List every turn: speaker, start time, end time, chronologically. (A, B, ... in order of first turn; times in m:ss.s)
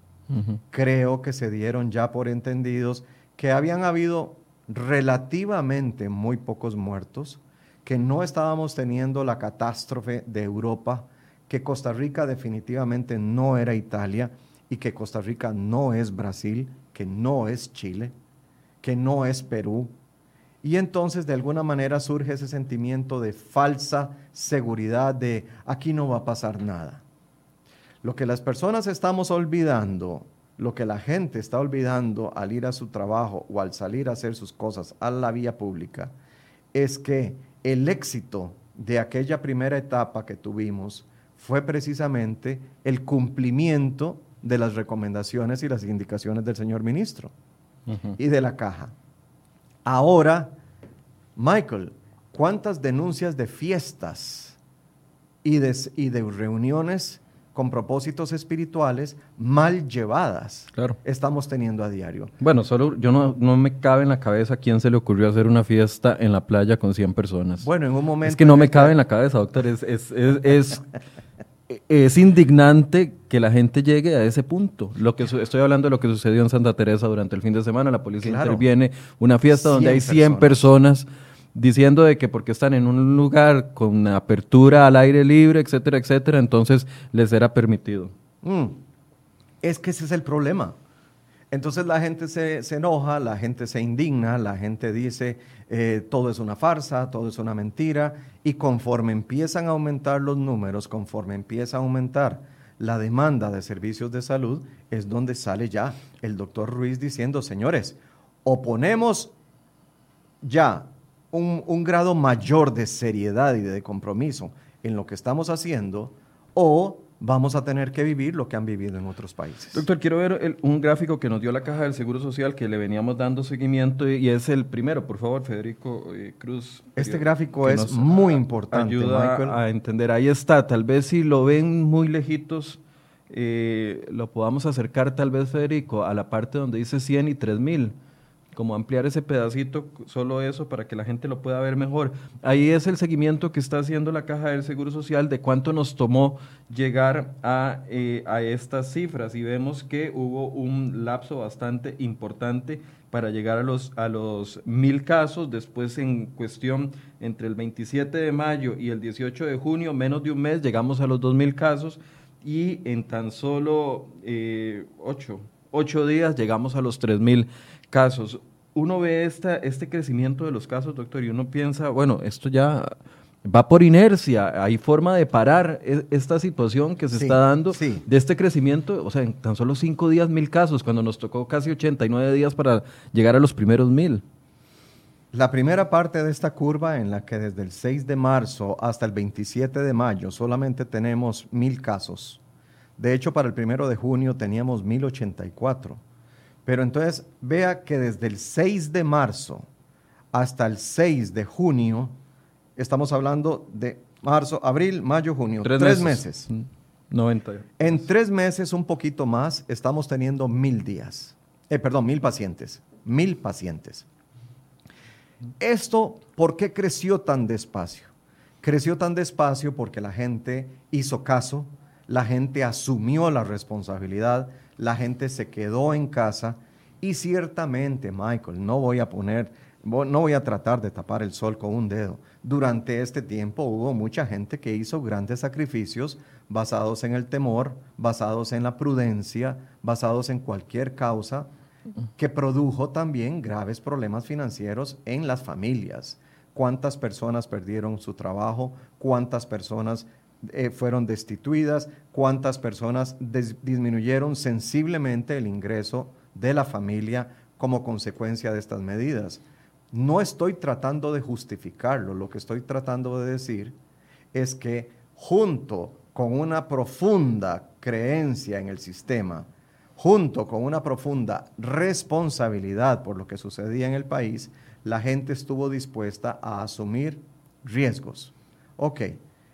0:00.3-0:00.6 A
0:00.7-0:18.1 B
0:18.8-0:19.9 B
0:20.6-0:27.0 B
0:28.0-0:36.1 B
0:36.7-0:47.3 B
0:48.1-0:48.9 B
0:49.8-0:50.6 B
0:51.4-0:54.6 B
0:55.4-1:02.3 B
1:02.4-1:07.7 A
1:07.6-1:08.9 B
1:08.2-1:10.8 A
1:11.7-1:28.1 A
1:18.2-1:18.6 B
1:19.5-1:20.7 B
1:28.4-1:28.8 B
1:29.6-1:30.7 B
1:31.5-1:49.3 B
1:50.4-1:59.8 B
1:59.7-2:17.9 A
2:07.0-2:09.6 B
2:18.5-3:04.2 A
2:57.1-2:58.0 B
3:05.3-3:12.4 B
3:13.0-3:16.0 B
3:16.6-3:19.6 B
3:20.3-3:22.1 B
3:22.8-3:26.5 B
3:25.6-3:28.0 A
3:27.8-3:34.1 B
3:35.6-3:38.1 B
3:38.6-4:01.5 B
4:02.2-4:23.7 B
4:24.3-4:39.2 B